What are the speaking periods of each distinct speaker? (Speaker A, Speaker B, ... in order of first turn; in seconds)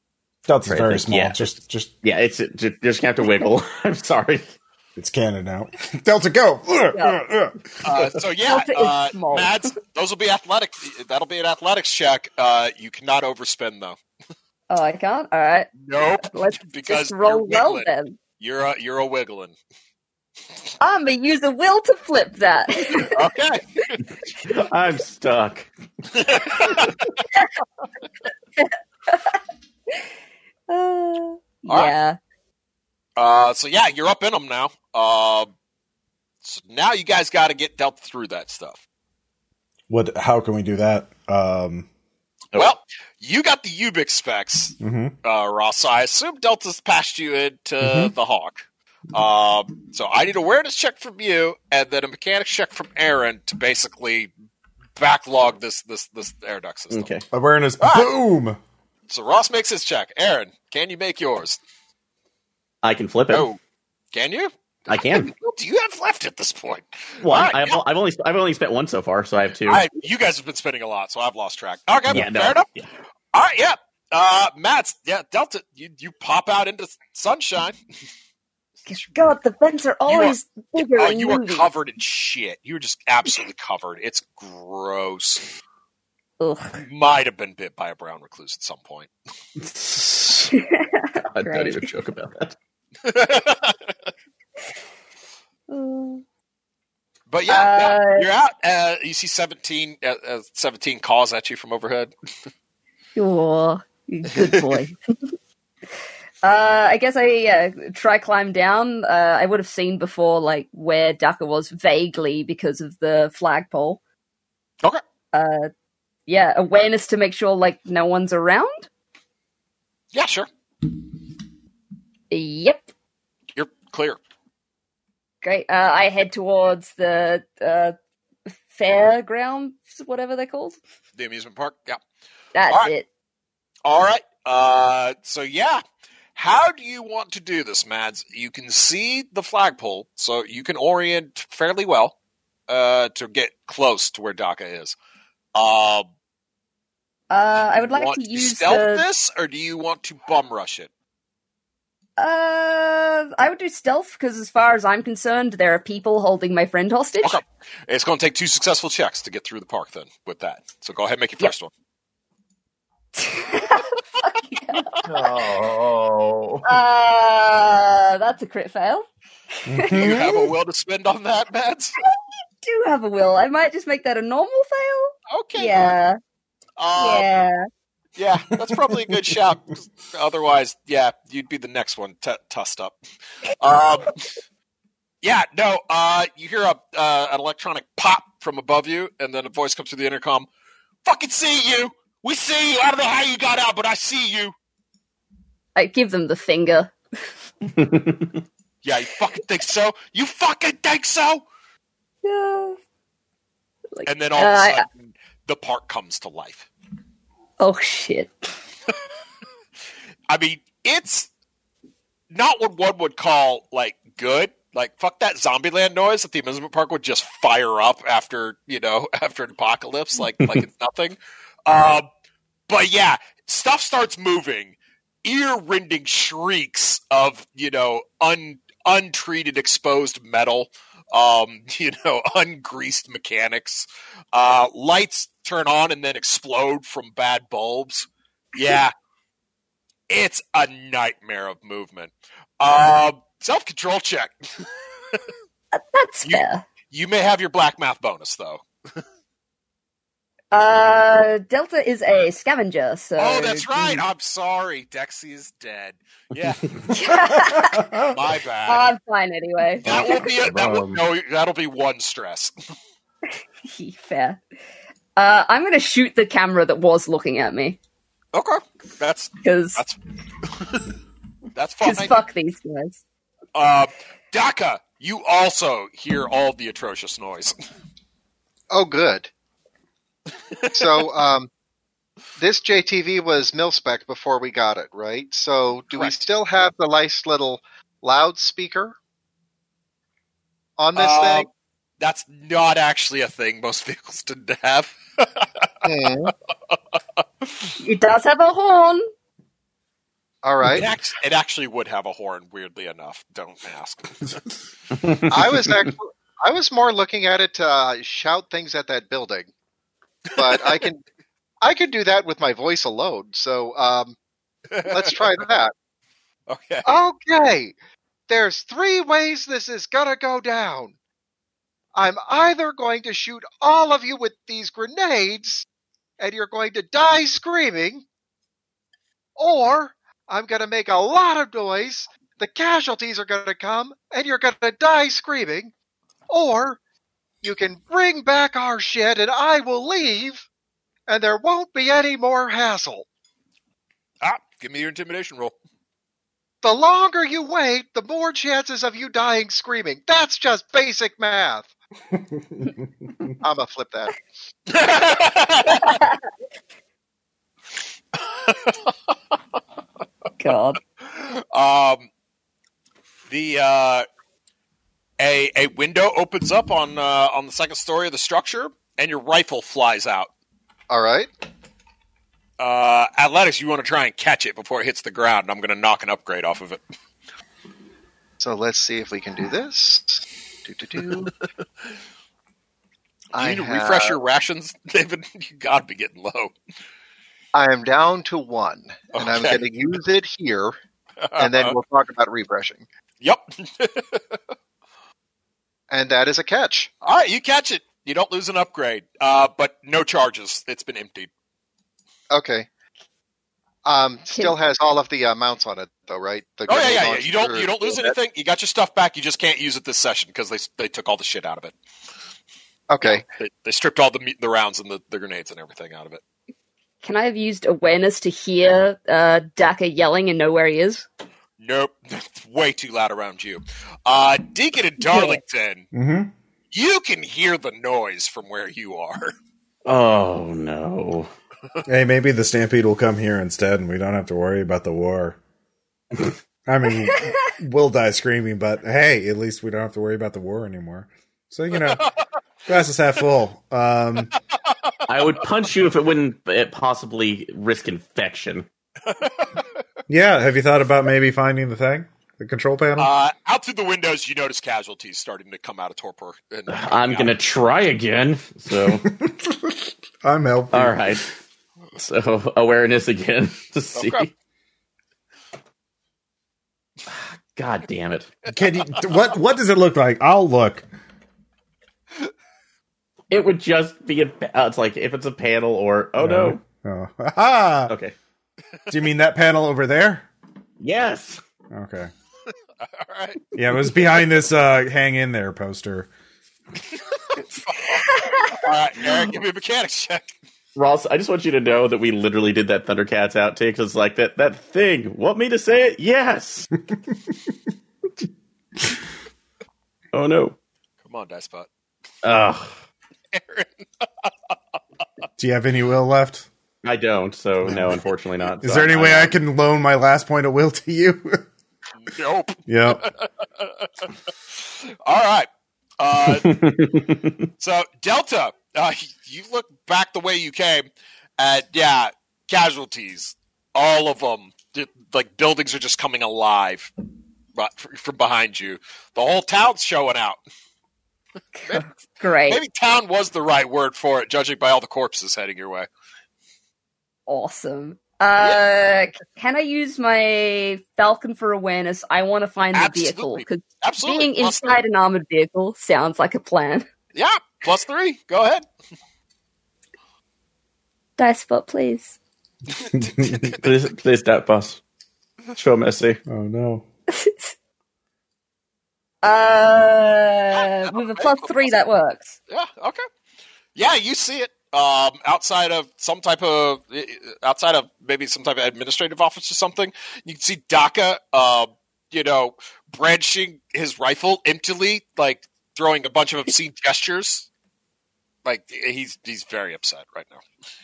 Speaker A: 0.5-1.9, 5.0-7.8, 39.9-41.9, 44.8-45.1, 47.8-48.1, 57.3-58.6, 169.7-170.3, 257.3-258.1, 352.1-353.3, 425.9-426.3, 431.9-435.4, 436.7-442.1, 442.7-444.3, 450.1-453.1, 458.8-461.2, 468.5-470.9, 476.2-477.9, 478.9-480.3, 481.7-482.1, 483.6-486.1, 505.4-506.5, 507.6-508.0, 508.6-511.4, 512.7-513.0, 552.9-553.5, 556.3-556.8
Speaker B: 0.7-1.4, 2.0-4.4, 24.0-25.7, 56.9-57.2, 62.8-63.5, 64.9-65.3, 67.2-69.8, 72.1-72.9, 89.6-90.5, 91.3-92.5, 165.0-166.7, 197.7-198.4, 256.4-256.9, 259.9-261.0, 304.9-305.8, 429.8-431.3, 445.1-448.7, 456.7-459.1, 460.7-461.2, 462.0-464.3, 467.1-468.3, 473.3-476.6, 477.9-478.1, 480.8-481.4, 490.8-496.7, 500.1-500.6, 502.2-502.7, 506.8-509.3, 516.3-517.5, 553.6-554.8, 555.5-556.2
Speaker C: 6.9-7.2, 8.4-9.7, 14.7-18.2, 20.8-23.2, 28.6-29.3, 30.7-32.2, 78.9-81.7, 86.4-86.8, 90.5-91.8, 95.7-96.2, 97.5-98.3, 103.2-104.9, 106.4-114.0, 115.3-115.7, 116.3-118.9, 122.3-122.9, 125.4-127.9, 128.7-130.8, 132.5-133.1, 147.3-149.0, 152.2-157.4, 163.2-164.9, 166.6-169.1, 169.6-170.5, 172.1-176.2, 176.9-177.6, 195.8-196.9, 202.2-202.8, 203.9-204.8, 207.6-208.5, 245.7-246.6, 250.5-254.0, 256.9-258.1, 258.7-260.3, 263.6-264.4, 265.1-267.8, 269.4-269.8, 271.8-273.0, 297.8-299.0, 355.7-356.2, 360.4-360.8, 417.0-421.1, 425.0-425.4, 487.9-488.6, 531.5-532.6, 537.3-546.9, 551.2-552.2, 557.1-557.5, 559.2-562.4
Speaker D: 7.8-14.0, 15.8-17.9, 18.4-19.5, 22.9-24.0, 26.1-27.1, 31.7-31.9, 33.1-35.5, 36.4-38.8, 42.5-54.3, 54.9-57.1, 57.8-58.1, 59.1-61.6, 63.3-63.6, 64.1-67.8, 69.7-72.7, 73.3-77.7, 80.1-85.4, 86.8-89.1, 93.0-93.8, 97.3-102.1, 104.3-104.8, 120.1-120.5, 123.5-124.2, 131.2-132.0, 133.8-135.8, 136.3-142.1, 142.7-144.9, 145.5-146.1, 147.9-150.9, 157.2-161.7, 169.9-171.9, 175.3-175.9, 176.8-177.3, 178.2-183.0, 183.6-184.2, 185.2-190.5, 191.0-194.5, 198.8-201.4, 204.1-206.7, 210.3-211.3, 212.3-222.1, 222.7-238.9, 240.1-245.2, 246.2-248.6, 253.2-256.6, 258.1-258.9, 259.8-262.5, 268.3-270.0, 271.6-272.1, 273.5-277.5, 280.5-281.1, 285.9-286.2, 290.9-291.5, 292.0-295.7, 296.2-296.7, 300.6-304.3, 310.4-310.8, 314.7-315.4, 316.5-316.9, 344.2-345.5, 354.7-356.0, 358.2-358.9, 361.0-362.1, 363.3-364.1, 365.2-370.3, 372.6-376.8, 383.3-386.5, 389.1-389.6, 391.2-391.8, 393.2-394.4, 397.0-401.3, 406.7-411.7, 413.0-416.2, 421.6-425.9, 426.7-429.3, 441.7-442.1, 444.6-445.4, 449.1-449.7, 453.0-457.3, 463.9-464.3, 482.8-483.4, 486.9-490.3, 501.0-501.7, 503.3-504.3, 512.0-515.5, 516.0-516.6, 517.6-520.9, 521.4-526.9, 527.5-530.4, 531.7-531.9, 532.5-535.9, 542.7-544.8, 547.1-548.6, 552.7-553.6, 560.5-561.7, 562.5-563.0, 563.7-577.5, 578.4-580.4
Speaker E: 278.7-279.3, 280.7-281.5, 282.4-288.9, 290.8-291.5, 295.8-296.3, 300.4-300.9, 305.3-309.5, 310.4-311.0, 311.6-314.1, 314.9-315.7, 316.9-317.7, 318.3-320.9, 321.9-325.7, 326.2-328.1, 329.4-335.7, 336.3-336.8, 337.4-340.4, 341.1-343.1, 346.6-351.7, 353.4-354.2, 370.9-371.3, 378.4-381.3, 383.3-384.2, 387.5-390.7, 391.4-392.9, 395.9-396.9, 402.3-402.7, 403.8-408.1, 412.9-413.2